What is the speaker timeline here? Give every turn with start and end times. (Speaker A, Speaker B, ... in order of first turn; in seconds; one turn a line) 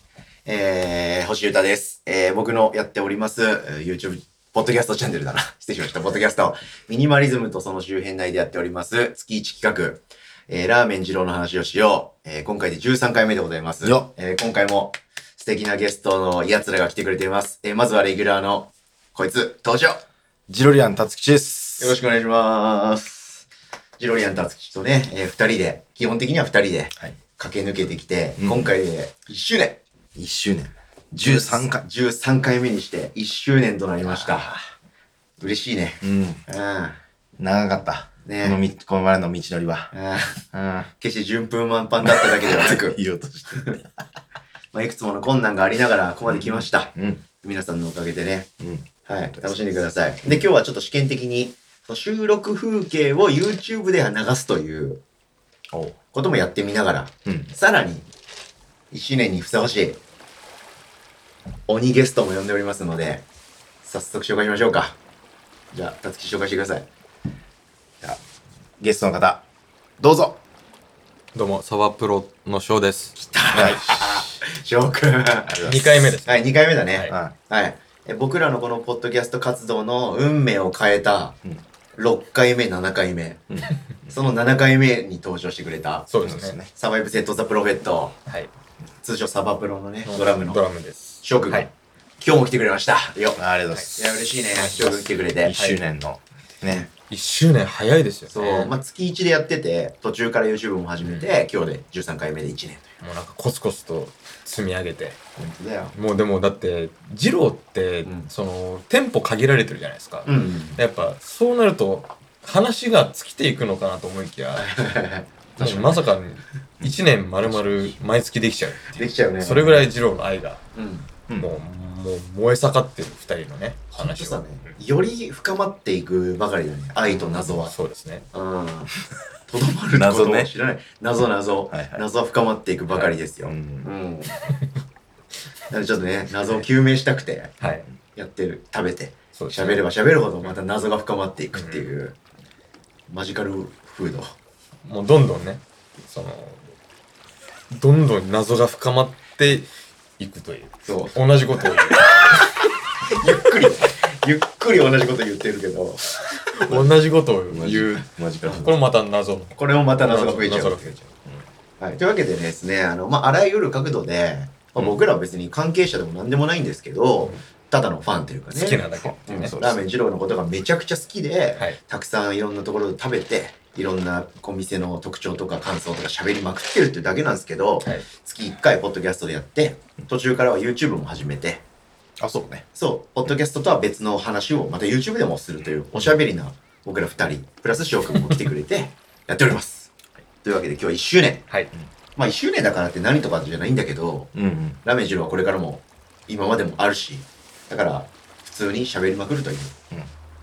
Speaker A: 0.5-20.0
Speaker B: 13.8-14.1
Speaker B: 20.5-22.0
Speaker A: 21.8-23.4
Speaker A: 24.0-29.8
Speaker B: 28.4-28.7
Speaker B: 30.1-31.9
Speaker A: 31.1-34.5
Speaker B: 34.0-34.5
Speaker A: 35.4-37.0
Speaker B: 36.0-36.4
Speaker B: 37.4-39.9
Speaker A: 38.2-38.6
Speaker A: 39.9-40.4
Speaker B: 40.5-40.9
Speaker A: 41.0-43.0
Speaker B: 42.0-43.8
Speaker A: 43.5-43.8
Speaker A: 44.7-48.5
Speaker B: 46.3-47.2
Speaker B: 48.6-49.7
Speaker A: 49.0-55.0
Speaker B: 55.7-56.0
Speaker A: 56.1-58.1
Speaker A: 58.9-60.0
Speaker A: 61.7-63.2
Speaker A: 63.8-65.0
Speaker A: 65.7-66.9
Speaker B: 68.8-69.5
Speaker B: 70.0-70.4
Speaker C: 71.3-73.2
Speaker A: 73.2-75.5
Speaker B: 73.5-74.3
Speaker B: 75.4-76.1
Speaker C: 75.6-77.1
Speaker A: 76.2-81.4
Speaker B: 77.1-77.3
Speaker A: 82.0-83.4
Speaker B: 83.5-84.2
Speaker A: 84.1-86.1
Speaker C: 86.1-86.6
Speaker B: 86.2-86.7
Speaker A: 86.7-88.2
Speaker A: 89.0-90.6
Speaker C: 90.0-91.7
Speaker A: 91.2-93.4
Speaker B: 93.4-96.9
Speaker A: 94.0-95.5
Speaker C: 95.5-95.8
Speaker C: 97.1-98.7
Speaker A: 98.3-102.9
Speaker C: 103.0-105.2
Speaker A: 105.4-105.9
Speaker C: 105.9-114.7
Speaker A: 108.0-108.3
Speaker A: 110.2-110.8
Speaker A: 114.5-116.0
Speaker C: 115.6-120.6
Speaker B: 116.8-118.0
Speaker A: 119.0-119.9
Speaker A: 120.7-121.1
Speaker B: 121.3-121.5
Speaker C: 121.4-124.7
Speaker A: 123.9-127.7
Speaker B: 127.1-127.6
Speaker C: 127.6-128.2
Speaker A: 128.3-128.9
Speaker A: 129.5-134.3
Speaker B: 129.9-130.5
Speaker B: 131.7-132.0
Speaker B: 133.4-133.9
Speaker A: 135.7-137.5
Speaker C: 137.6-137.8
Speaker A: 138.2-142.2
Speaker C: 139.3-139.8
Speaker C: 141.5-141.9
Speaker A: 143.1-144.3
Speaker C: 144.8-146.6
Speaker C: 147.7-149.7
Speaker C: 150.2-152.4
Speaker A: 150.8-151.7
Speaker A: 153.1-156.2
Speaker C: 156.5-158.1
Speaker B: 157.5-158.8
Speaker A: 158.4-158.7
Speaker C: 158.6-161.1
Speaker A: 159.6-160.8
Speaker A: 161.8-181.6
Speaker C: 168.5-169.5
Speaker B: 169.3-169.9
Speaker B: 182.2-182.7
Speaker A: 182.7-189.9
Speaker A: 190.4-191.5
Speaker A: 192.2-194.3
Speaker B: 194.3-194.8
Speaker A: 194.8-199.8